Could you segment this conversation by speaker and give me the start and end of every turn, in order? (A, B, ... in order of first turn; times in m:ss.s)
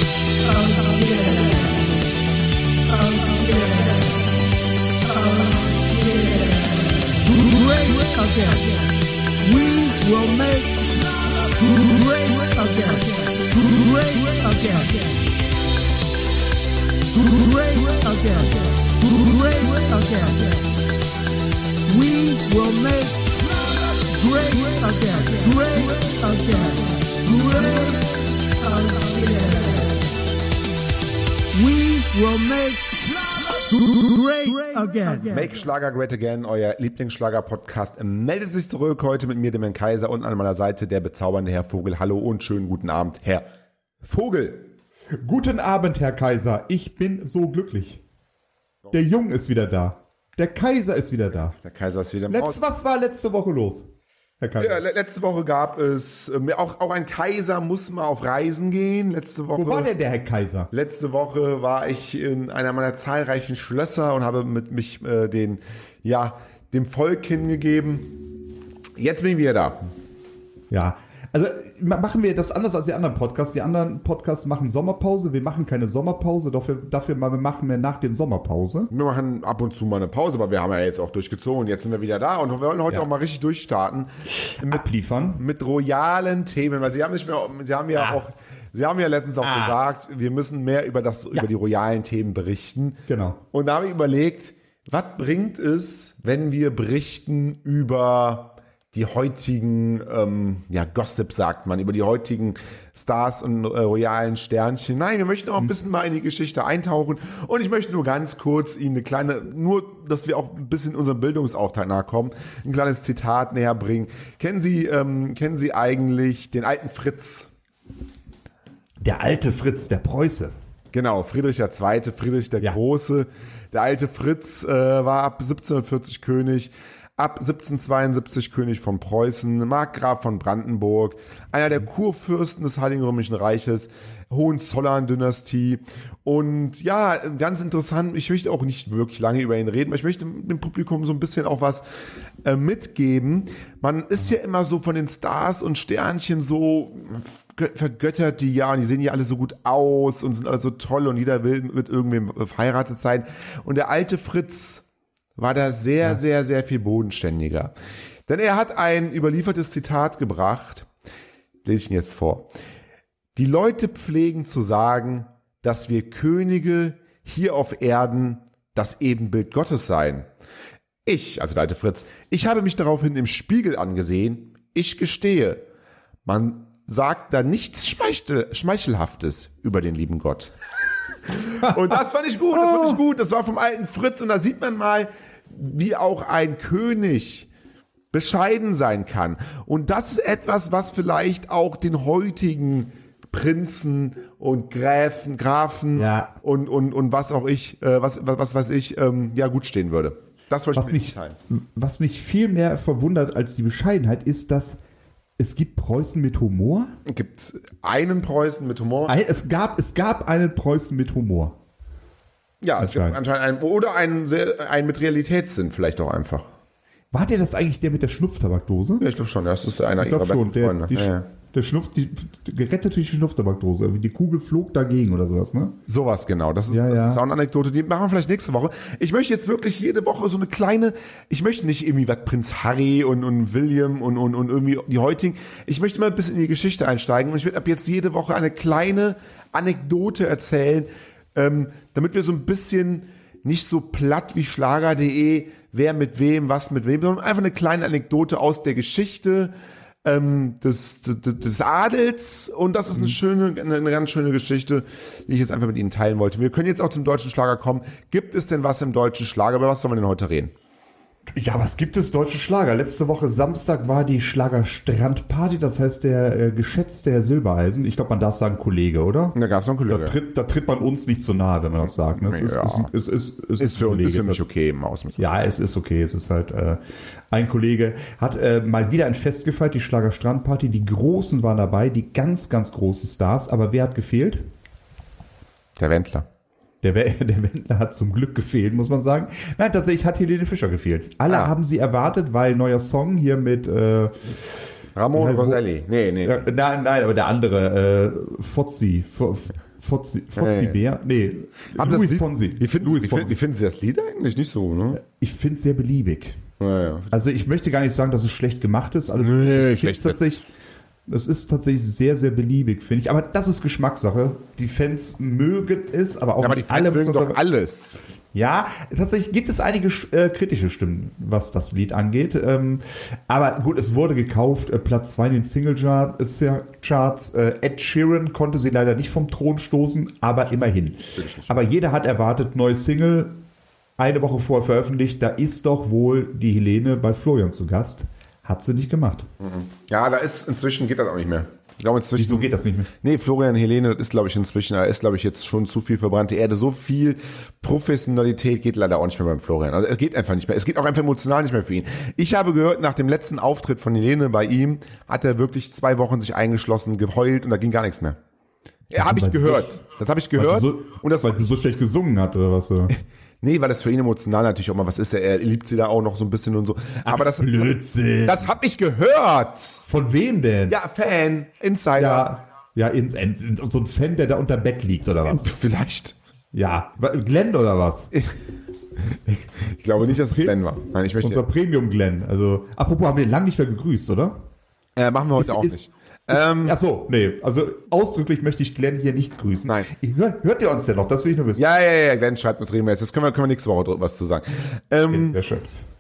0:00.4-0:01.8 A
0:02.9-0:04.3 A
0:05.0-0:15.2 A
0:17.1-0:20.7 A
0:21.9-0:30.0 A
0:31.5-0:35.4 A
0:35.3-0:43.4 B
0:44.0-0:44.7 B
0:45.2-0:48.0 C
0:48.9-0:51.6 C
0:51.6-0:52.6 B
0:52.3-0:53.9 C
0:54.4-0:54.8 C
0:54.6-0:59.9 B
0:59.5-1:00.7 C
1:00.7-1:08.2 B
1:09.0-1:09.8 B
1:10.7-1:18.9 C
1:18.9-1:33.0 B
1:24.6-1:25.4 C
1:29.4-1:29.8 C
1:33.1-1:33.4 C
1:33.5-1:57.5 B
1:59.0-2:00.5 C
2:00.9-2:21.8 B
2:22.4-2:34.8 B
2:35.4-2:37.7 B
2:38.3-2:40.9 B
2:41.6-2:42.5 B
2:43.4-2:50.3 B
2:51.0-2:55.6 B
2:56.2-3:00.5 B
3:01.3-3:07.5 B
3:01.6-3:02.0 C
3:02.5-3:03.0 C
3:08.1-3:21.4 B
3:16.0-3:16.3 C
3:20.7-3:24.8 C
3:25.4-3:26.9 C
3:27.0-3:29.1 B
3:29.1-3:31.6 C
3:32.6-3:36.5 B
3:32.8-3:33.2 C
3:37.1-3:39.0 C
3:39.0-3:41.2 B
3:40.0-3:45.8 C
3:45.9-4:09.5 B
3:46.7-3:47.2 C
4:10.0-4:20.5 B
4:21.3-4:29.4 C
4:29.3-4:30.2 B
4:29.9-4:34.4 C
4:32.1-4:32.9 B
4:33.6-4:35.3 B
4:35.2-4:36.8 C
4:37.3-4:44.5 C
4:45.8-4:46.3 B
4:46.8-4:54.4 C
4:51.3-4:51.5 B
4:55.0-4:56.5 B
4:55.1-4:55.6 C
4:56.2-5:03.4 C
5:00.4-5:00.8 B
5:01.7-5:05.0 B
5:05.0-5:06.4 C
5:06.6-5:07.2 B
5:07.1-5:10.5 C
5:09.2-5:10.5 B
5:11.1-5:17.4 C
5:16.4-5:17.9 B
5:18.3-5:33.4 C
5:31.2-5:31.5 B
5:34.0-5:39.3 C
5:39.4-5:58.2 B
5:42.2-5:42.9 C
5:58.9-6:01.4 B
5:58.9-5:59.8 C
6:00.4-6:02.9 C
6:03.4-6:07.7 B
6:07.0-6:08.5 C
6:08.2-6:09.8 B
6:09.9-6:10.8 C
6:10.7-6:12.3 B
6:11.9-6:15.5 C
6:15.2-6:16.2 B
6:16.5-6:18.1 C
6:19.0-6:21.4 B
6:20.0-6:20.6 C
6:21.2-6:24.4 C
6:25.0-6:26.8 B
6:25.4-6:31.6 C
6:31.6-6:35.4 B
6:35.1-6:35.7 C